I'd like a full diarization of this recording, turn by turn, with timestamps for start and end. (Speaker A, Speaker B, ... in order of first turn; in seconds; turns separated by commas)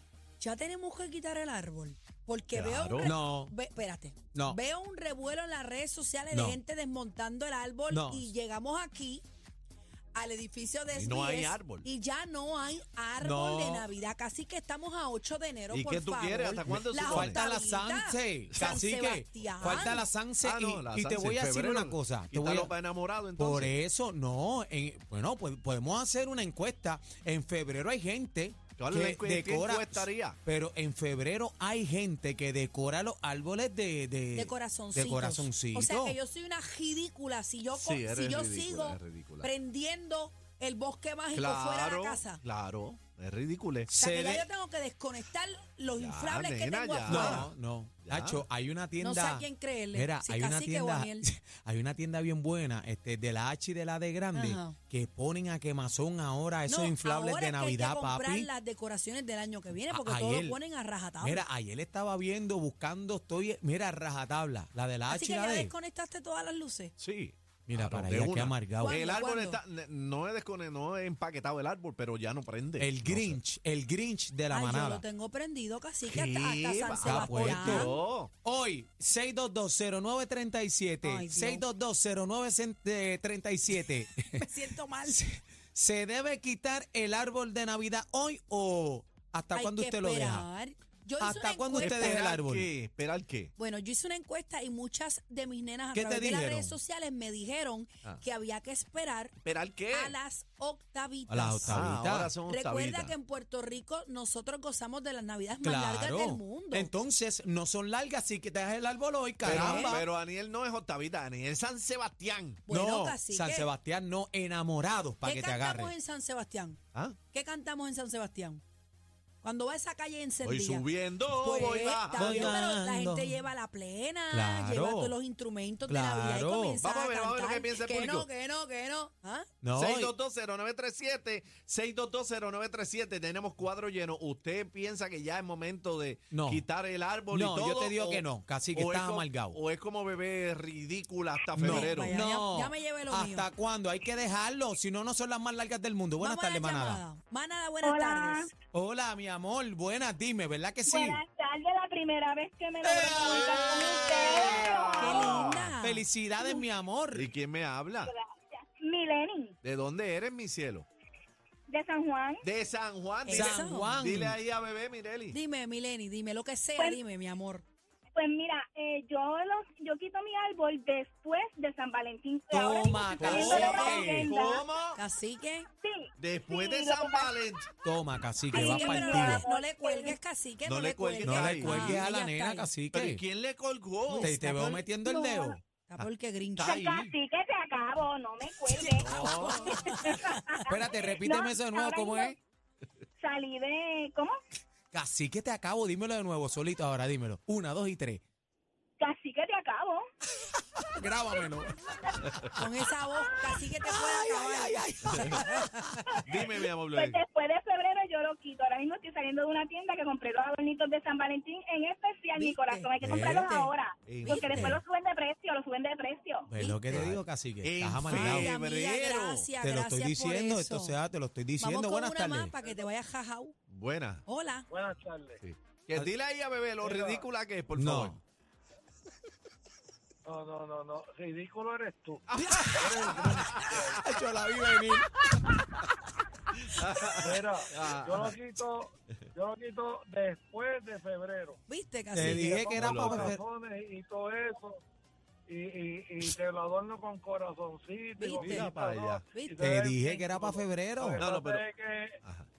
Speaker A: 0.4-9.2, Speaker B: 2.5-3.1, Speaker C: 3.0-3.5, Speaker C: 6.3-6.6, Speaker C: 7.9-8.3, Speaker A: 10.1-20.1, Speaker B: 10.9-11.9, Speaker C: 13.2-13.9, Speaker B: 15.7-17.4, Speaker C: 16.7-22.8, Speaker B: 18.5-18.8, Speaker B: 19.7-23.7, Speaker C: 23.4-36.2, Speaker B: 28.8-30.4, Speaker A: 34.3-42.4, Speaker B: 37.7-39.5, Speaker B: 41.3-43.9, Speaker C: 43.9-44.5, Speaker A: 43.9-47.5, Speaker B: 45.9-47.5, Speaker C: 47.0-58.5, Speaker B: 48.0-48.4, Speaker A: 49.0-51.2, Speaker A: 54.3-54.8, Speaker A: 56.6-61.4, Speaker C: 59.9-60.6, Speaker C: 61.2-65.7, Speaker A: 65.1-66.9, Speaker B: 67.0-73.4, Speaker C: 67.7-69.0, Speaker A: 68.8-69.6, Speaker C: 72.8-75.0, Speaker A: 74.5-77.9, Speaker B: 76.0-78.3, Speaker C: 77.0-77.9, Speaker C: 78.4-84.5, Speaker A: 81.0-81.6, Speaker A: 84.3-85.2, Speaker C: 85.0-90.5, Speaker A: 89.5-92.3, Speaker C: 91.2-92.7, Speaker B: 91.7-93.5, Speaker A: 93.6-99.3, Speaker C: 95.9-96.8, Speaker B: 99.4-100.2, Speaker A: 99.9-101.9, Speaker C: 101.3-102.3, Speaker B: 101.6-103.1, Speaker A: 102.5-106.9, Speaker C: 105.6-110.1, Speaker B: 109.4-112.6, Speaker A: 109.5-110.0, Speaker A: 112.7-113.7, Speaker C: 112.7-115.9, Speaker A: 115.2-116.8, Speaker A: 117.3-118.6, Speaker A: 119.4-129.5, Speaker B: 120.4-122.6, Speaker C: 122.1-123.4, Speaker C: 124.3-125.2, Speaker C: 125.9-126.8, Speaker B: 126.8-128.3, Speaker C: 129.6-130.1, Speaker B: 129.8-142.1, Speaker C: 136.3-136.6, Speaker C: 137.3-139.6, Speaker A: 141.5-143.5, Speaker C: 141.5-147.0, Speaker A: 146.2-148.5, Speaker D: 147.8-148.5, Speaker C: 148.7-151.2, Speaker D: 150.9-155.5, Speaker C: 152.8-154.7, Speaker B: 153.2-155.7, Speaker A: 155.0-156.0, Speaker C: 155.8-157.3, Speaker B: 157.1-158.1, Speaker D: 158.1-159.6, Speaker B: 159.6-160.8, Speaker D: 161.7-162.4, Speaker B: 162.4-165.4, Speaker A: 163.2-163.9, Speaker C: 163.3-164.4, Speaker A: 165.3-167.6, Speaker D: 168.1-174.6, Speaker C: 172.5-174.3, Speaker B: 173.2-175.0, Speaker A: 173.2-174.1, Speaker A: 174.9-175.7, Speaker D: 175.8-177.3, Speaker B: 176.2-177.7, Speaker C: 177.8-179.4, Speaker D: 178.5-180.2, Speaker A: 178.5-182.7, Speaker B: 180.6-182.0, Speaker C: 181.2-183.2, Speaker B: 182.9-184.8, Speaker A: 184.1-186.8, Speaker C: 184.2-185.6, Speaker B: 186.0-187.1, Speaker D: 186.6-192.3, Speaker A: 188.8-190.6, Speaker B: 189.0-189.8, Speaker C: 190.7-192.4, Speaker D: 193.2-194.3, Speaker C: 194.9-198.2, Speaker D: 199.0-200.0, Speaker C: 200.5-201.8, Speaker A: 202.5-205.8, Speaker C: 203.7-206.2, Speaker B: 206.2-207.2, Speaker D: 206.9-216.5, Speaker A: 212.4-213.7, Speaker C: 213.0-213.7, Speaker B: 214.1-214.8, Speaker C: 214.4-214.8, Speaker C: 216.5-218.5, Speaker A: 216.6-217.0, Speaker B: 216.9-219.5, Speaker A: 218.1-221.0, Speaker C: 219.6-222.5, Speaker A: 221.6-223.5, Speaker B: 223.7-224.2, Speaker A: 224.2-224.7, Speaker E: 224.7-225.4, Speaker B: 225.4-228.2, Speaker E: 226.8-227.2, Speaker C: 227.7-228.2, Speaker E: 230.2-234.0, Speaker B: 232.3-233.8, Speaker C: 232.5-232.9, Speaker C: 233.6-236.0, Speaker B: 236.6-238.3, Speaker E: 237.1-241.6, Speaker A: 241.7-242.6, Speaker C: 242.1-243.4, Speaker E: 242.2-244.8, Speaker B: 242.8-243.3, Speaker E: 245.5-252.2, Speaker A: 248.2-248.7, Speaker B: 248.4-249.2, Speaker A: 249.3-249.8, Speaker C: 249.6-251.2, Speaker B: 251.2-251.6